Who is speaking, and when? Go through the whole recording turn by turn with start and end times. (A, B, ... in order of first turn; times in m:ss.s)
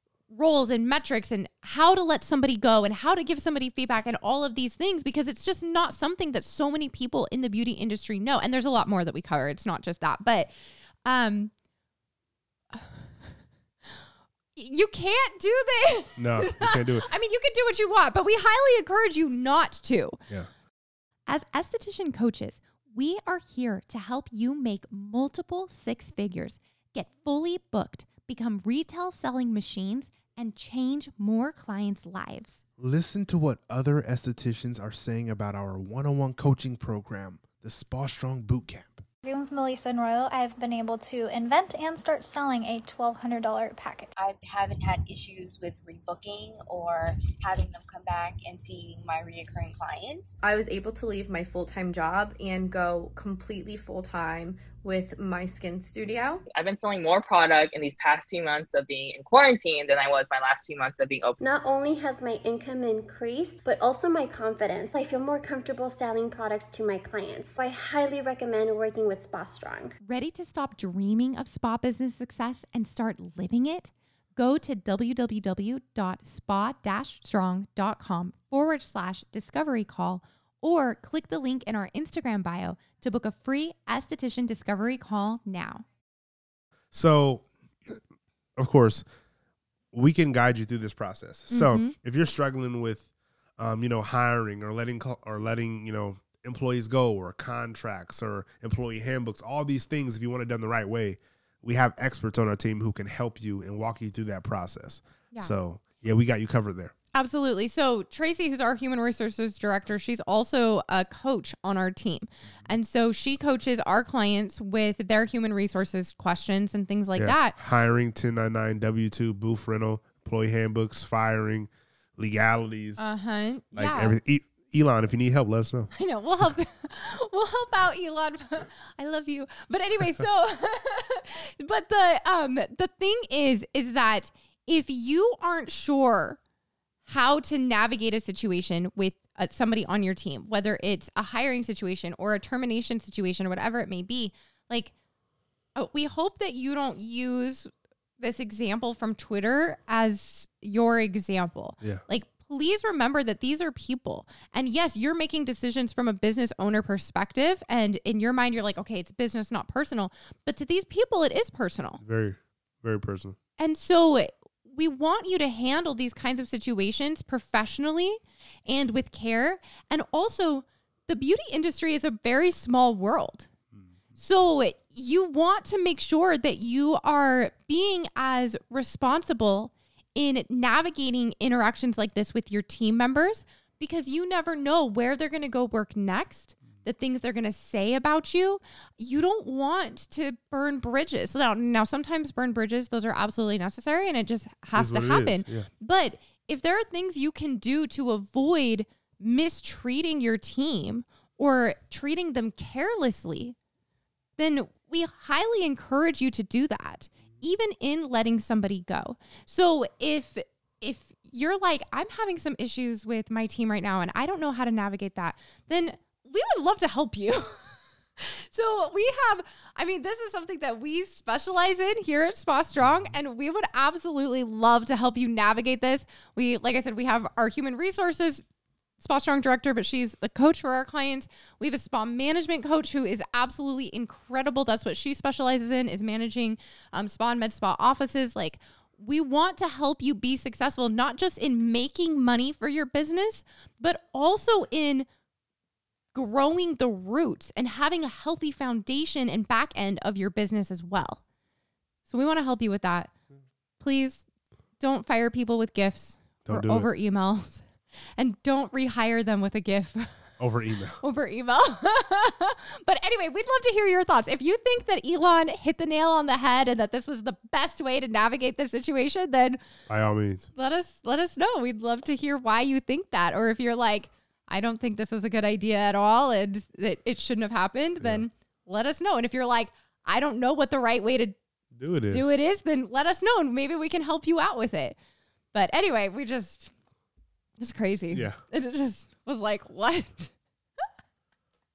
0:00.3-0:10.5 A
0:11.0-0:11.5 A
0:12.7-0:13.4 A
0:14.6-0:20.2 A
0:16.2-0:17.1 B
0:21.3-0:32.6 A
0:32.8-0:39.0 B
0:39.2-0:44.1 C
0:44.2-0:50.3 D
0:50.4-0:56.4 E
0:56.5-1:01.4 F
1:01.4-1:10.0 G
1:10.0-1:25.8 A
1:26.9-1:28.0 B
1:28.6-1:29.0 B
1:29.9-1:46.9 B
1:31.5-1:31.9 A
1:47.1-1:57.6 A
1:57.2-2:03.1 B
2:03.0-2:04.2 A
2:03.7-2:05.9 B
2:06.0-2:16.4 A
2:17.1-2:24.9 A
2:25.8-2:42.0 A
2:42.0-2:43.4 B
2:43.6-2:53.5 A
2:54.2-3:23.6 A
3:14.8-3:15.7 B
3:24.4-3:48.4 A
3:49.0-4:05.1 A
4:06.1-4:11.2 A
4:12.0-4:13.1 A
4:13.8-4:14.3 A
4:14.8-4:17.7 A
4:16.5-4:16.9 B
4:18.2-4:20.3 A
4:20.4-4:21.0 B
4:21.0-4:29.6 A
4:29.9-4:30.5 B
4:30.6-4:41.4 A
4:38.0-4:38.3 B
4:41.8-4:42.3 B
4:42.1-4:45.0 A
4:45.5-4:46.7 A
4:47.6-4:50.3 A
4:48.1-4:48.4 B